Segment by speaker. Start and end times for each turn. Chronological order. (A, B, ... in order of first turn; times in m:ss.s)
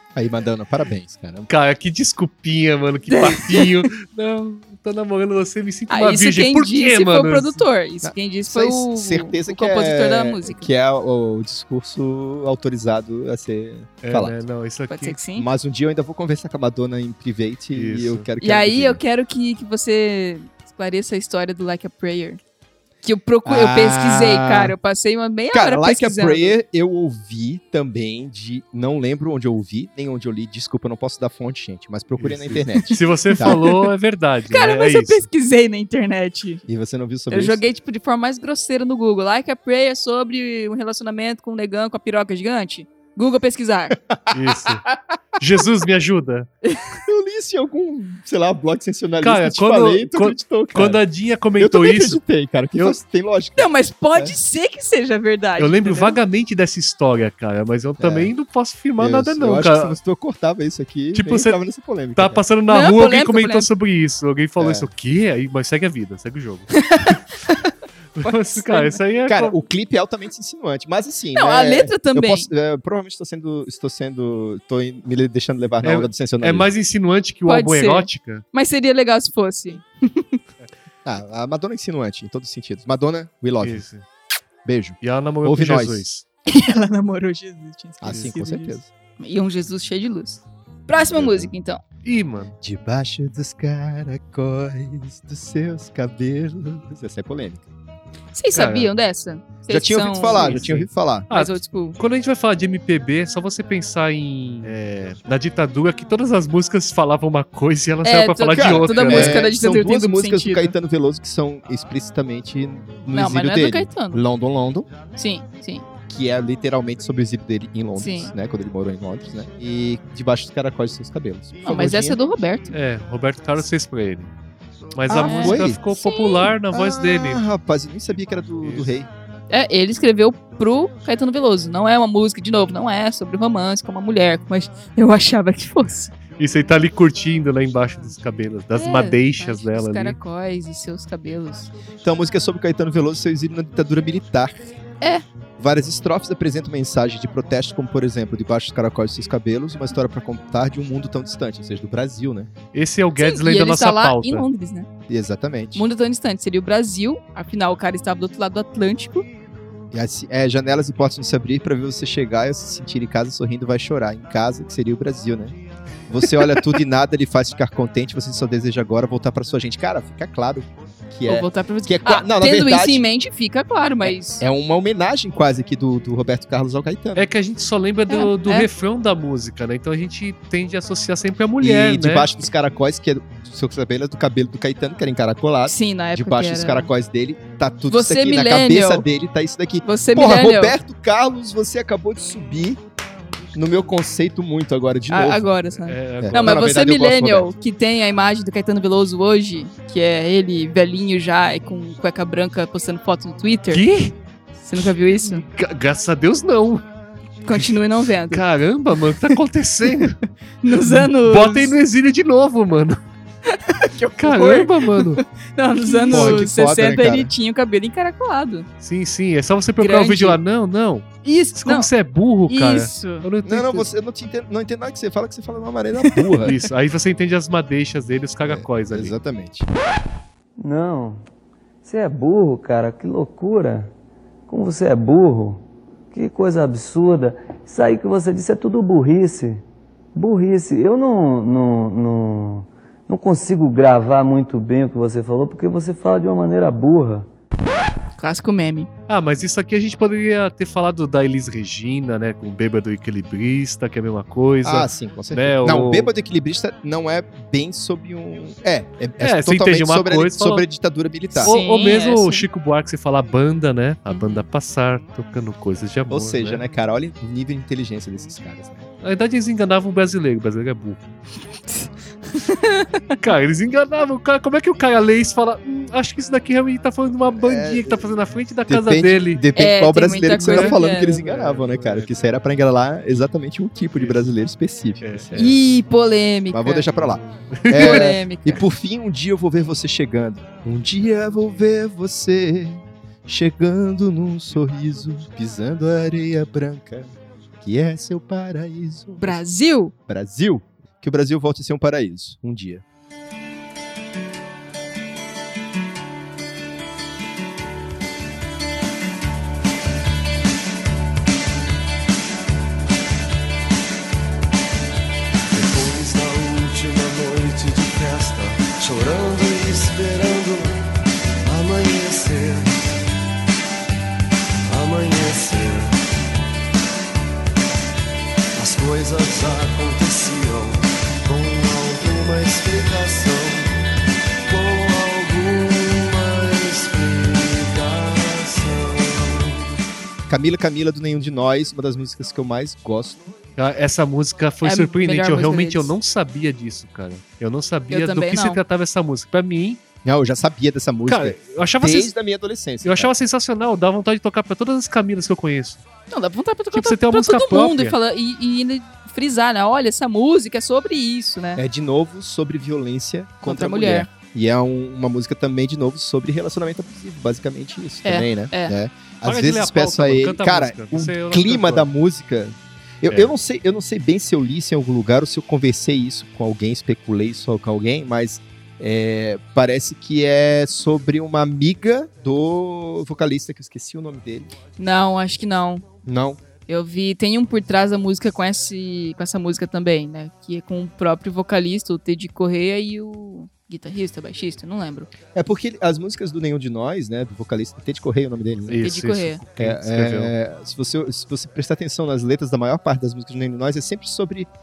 0:00.1-0:01.5 A
0:01.5-0:07.6 B
0:03.1-0:03.9 C
0:05.9-0:10.7 C
0:08.0-0:14.4 A
0:14.0-0:15.2 B
0:14.9-0:15.5 C
0:15.4-0:19.0 A
0:17.7-0:18.3 B
0:18.4-0:22.4 C
0:23.0-0:26.6 C
0:23.4-0:24.7 A
0:25.5-0:33.6 A
0:32.2-0:35.3 B
0:32.8-0:33.8 C
0:34.5-0:36.6 C
0:36.7-0:37.6 A
0:37.3-0:44.0 C
0:44.1-0:44.9 A
0:44.3-0:44.9 B
0:45.4-0:46.5 B
0:46.6-0:47.0 C
0:47.0-0:51.0 A
0:49.2-0:52.2 B
0:51.6-0:54.3 A
0:53.6-0:56.2 C
0:55.6-1:00.0 B
0:58.0-0:58.3 A
0:59.0-1:02.4 A
1:01.1-1:01.6 B
1:02.1-1:07.2 B
1:02.7-1:03.7 C
1:04.6-1:04.9 A
1:06.7-1:07.7 C
1:08.2-1:09.6 B
1:08.2-1:09.0 C
1:09.3-1:16.7 A
1:11.3-1:12.5 C
1:15.8-1:18.4 B
1:17.5-1:20.4 C
1:21.0-1:23.8 A
1:23.6-1:24.0 B
1:24.6-1:26.0 A
1:25.0-1:26.2 B
1:26.5-1:31.8 C
1:28.0-1:28.9 A
1:31.0-1:31.5 A
1:32.0-1:32.5 B
1:32.6-1:37.6 A
1:38.3-1:40.6 C
1:38.5-1:38.9 B
1:39.7-1:41.3 A
1:40.3-1:49.5 B
1:41.3-1:42.0 C
1:48.0-1:50.7 C
1:48.5-1:54.9 A
1:53.1-1:54.2 C
1:55.2-1:55.8 C
1:56.1-2:02.2 A
1:58.0-1:58.3 C
2:01.6-2:02.7 C
2:02.7-2:04.3 B
2:04.9-2:07.4 B
2:05.1-2:05.8 A
2:05.1-2:06.5 C
2:06.7-2:09.1 A
2:08.6-2:08.9 B
2:09.5-2:16.1 C
2:16.4-2:20.2 B
2:18.7-2:21.7 C
2:22.0-2:24.7 A
2:25.6-2:32.5 A
2:32.7-2:34.5 B
2:33.2-2:34.9 C
2:35.1-2:35.8 A
2:35.7-2:39.3 C
2:39.9-2:45.6 A
2:46.1-2:53.0 A
2:51.3-2:54.4 C
2:54.0-2:57.3 A
2:57.2-3:02.3 B
2:58.1-2:58.7 C
3:01.6-3:12.8 A
3:05.6-3:06.9 C
3:07.9-3:09.0 C
3:09.8-3:10.8 C
3:13.5-3:15.5 A
3:15.1-3:23.8 C
3:15.8-3:16.6 B
3:16.2-3:17.5 A
3:23.7-3:24.1 B
3:24.6-3:25.4 C
3:25.2-3:26.8 B
3:27.4-3:28.4 C
3:27.5-3:27.8 B
3:28.3-3:30.2 B
3:30.6-3:31.7 C
3:30.8-3:33.0 B
3:33.5-3:38.7 C
3:34.2-3:35.2 B
3:35.9-3:36.4 B
3:36.1-3:37.3 A
3:38.8-3:43.9 B
3:39.8-3:40.4 C
3:41.2-3:41.9 C
3:42.5-3:43.2 C
3:43.4-3:46.6 A
3:46.0-3:46.5 C
3:46.4-3:49.1 B
3:48.4-3:49.7 A
3:50.6-3:51.2 D
3:51.8-3:53.9 D
3:54.5-3:59.6 D
4:00.1-4:07.3 D
4:08.2-4:08.9 C
4:09.1-4:16.1 B
4:14.6-4:21.5 A
4:19.2-4:20.6 B
4:21.3-4:26.6 B
4:21.4-4:22.4 C
4:24.1-4:24.4 C
4:26.1-4:28.9 A
4:29.0-4:31.0 B
4:31.7-4:33.2 C
4:33.2-4:39.4 B
4:37.3-4:38.2 A
4:38.7-4:45.5 A
4:39.6-4:41.2 C
4:40.3-4:42.1 B
4:43.9-4:44.2 B
4:45.0-4:45.4 B
4:45.3-4:46.9 C
4:46.5-4:59.4 A
4:47.0-4:48.1 B
4:47.7-4:48.6 C
4:59.2-4:59.9 C
5:00.1-5:02.8 A
5:15.5-5:20.8 E
5:21.4-5:23.0 E
5:24.7-5:26.0 E
5:28.5-5:33.7 E
5:34.5-5:39.6 E
5:40.3-5:43.3 A
5:43.6-5:49.8 B
5:44.6-5:45.9 C
5:47.9-5:48.6 C
5:50.0-5:53.1 A
5:51.1-5:52.1 B
5:52.8-5:55.8 B
5:56.1-6:01.6 C
5:56.7-5:57.9 B
6:01.6-6:24.5 A
6:03.4-6:04.1 C
6:08.0-6:08.8 C
6:09.2-6:11.9 B
6:13.1-6:13.3 B
6:24.8-6:25.8 C
6:26.0-6:26.4 A
6:26.7-6:35.1 C
6:35.3-6:38.8 A
6:38.7-6:40.3 B
6:38.8-6:39.4 C
6:39.6-6:44.5 A